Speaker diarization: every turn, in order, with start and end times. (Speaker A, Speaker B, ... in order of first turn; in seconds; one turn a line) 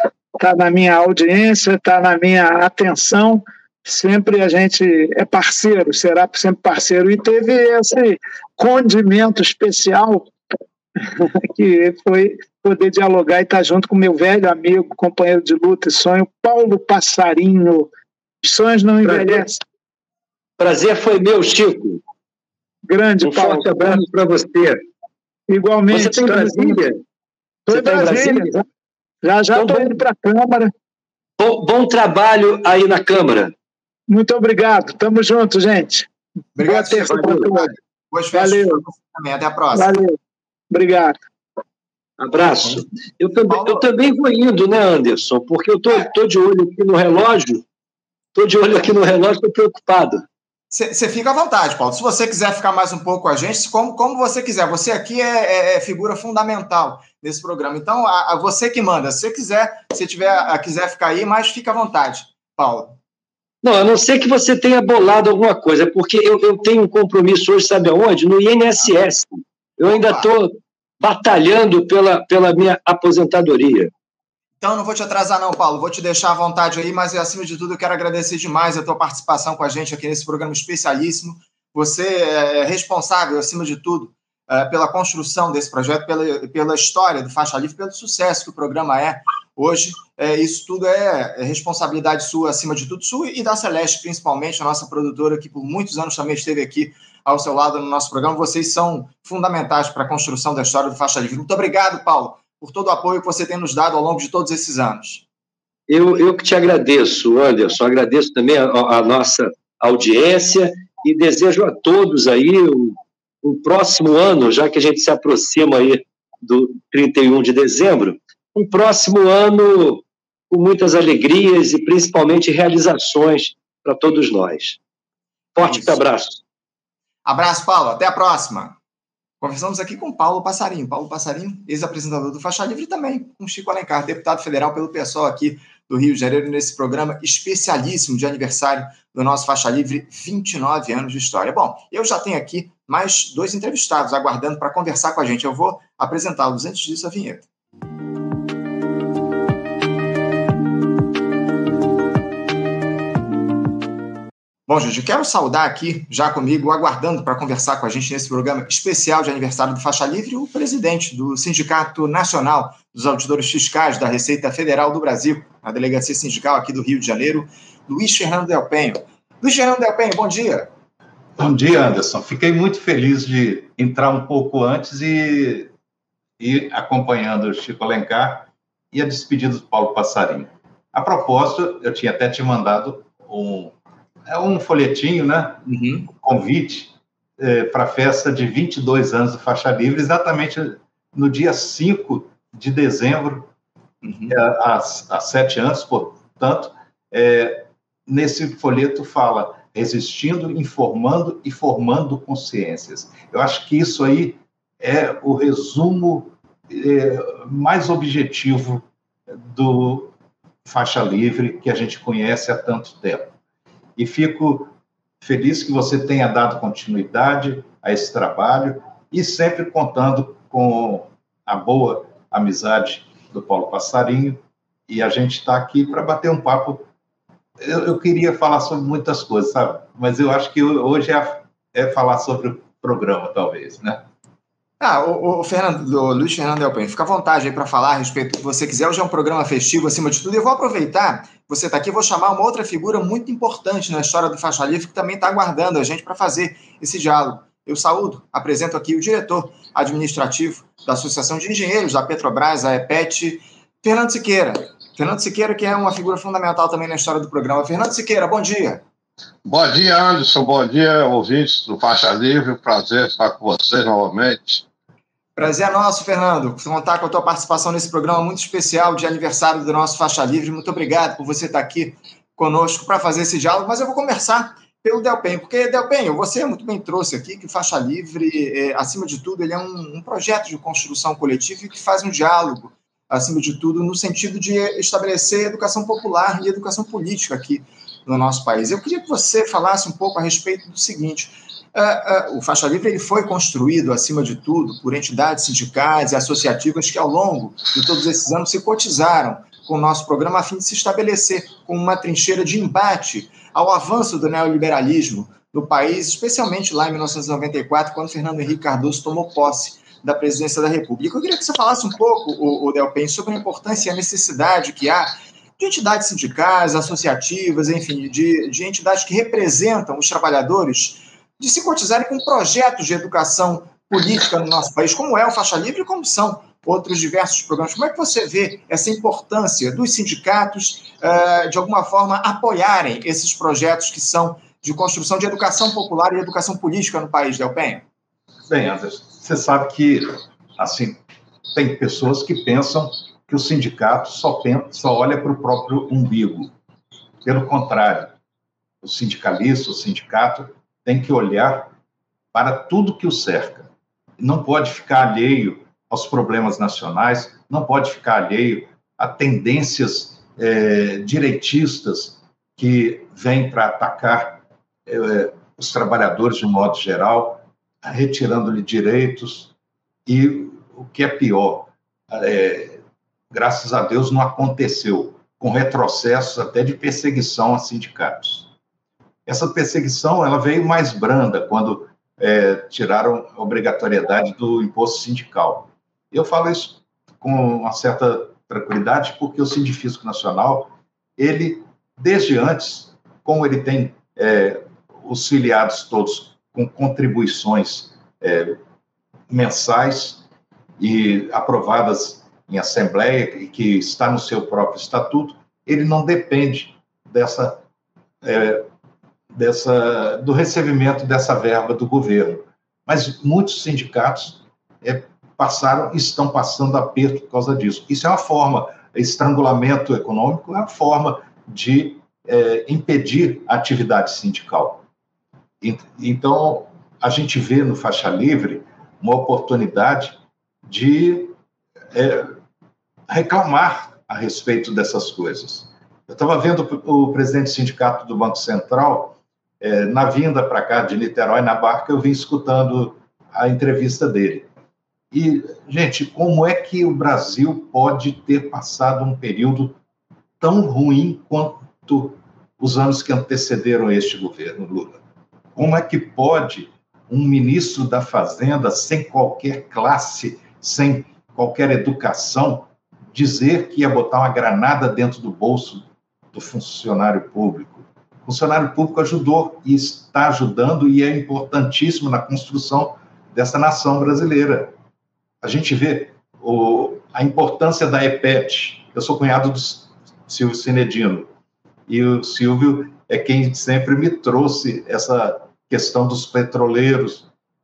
Speaker A: 0.4-10.3
Speaker A: 11.1-17.9
Speaker A: 18.4-19.6
Speaker B: 19.0-19.4
Speaker B: 20.6-22.0
Speaker A: 22.9-24.0
Speaker B: 23.2-24.8
Speaker A: 25.5-26.8
Speaker B: 25.9-27.0
Speaker B: 27.7-28.5
Speaker A: 27.7-28.6
Speaker A: 29.2-30.7
Speaker B: 29.5-29.9
Speaker B: 31.4-33.5
Speaker A: 34.1-36.1
Speaker C: 36.6-40.0
Speaker A: 36.6-37.7
Speaker A: 38.3-38.8
Speaker A: 39.7-40.2
Speaker A: 40.7-41.1
Speaker B: 42.2-47.6
Speaker C: 43.5-43.9
Speaker B: 48.4-50.2
Speaker C: 50.7-63.0
Speaker B: 63.6-73.9
Speaker C: 69.9-70.3
Speaker C: 74.6-105.2
Speaker B: 105.9-124.8
Speaker B: 125.5-126.4
Speaker C: 125.6-126.0
Speaker C: 127.2-128.8
Speaker C: 129.4-147.5
Speaker C: 154.7-170.7
Speaker D: 171.4-175.7
Speaker D: 176.4-183.8
Speaker D: 184.3-193.5
Speaker C: 185.7-186.1
Speaker C: 194.0-194.4
Speaker D: 194.3-208.8
Speaker D: 209.5-210.1
Speaker D: 210.7-213.3
Speaker D: 214.0-214.7
Speaker D: 215.2-226.9
Speaker D: 227.6-234.0
Speaker C: 234.8-258.8
Speaker E: 259.4-264.6
Speaker C: 265.4-337.9
Speaker D: 338.5-341.0
Speaker D: 341.5-346.5
Speaker D: 347.2-348.1
Speaker D: 348.8-351.7
Speaker D: 352.3-369.5
Speaker D: 370.1-372.8
Speaker D: 373.3-378.5
Speaker D: 379.3-398.6
Speaker D: 399.3-400.2
Speaker D: 400.8-407.6
Speaker D: 408.2-408.7
Speaker D: 409.3-424.8
Speaker D: 425.6-431.3
Speaker D: 431.9-432.4
Speaker D: 433.1-444.5
Speaker D: 445.1-449.8
Speaker D: 450.4-455.0
Speaker D: 455.6-474.7
Speaker D: 475.4-481.3
Speaker D: 481.9-487.3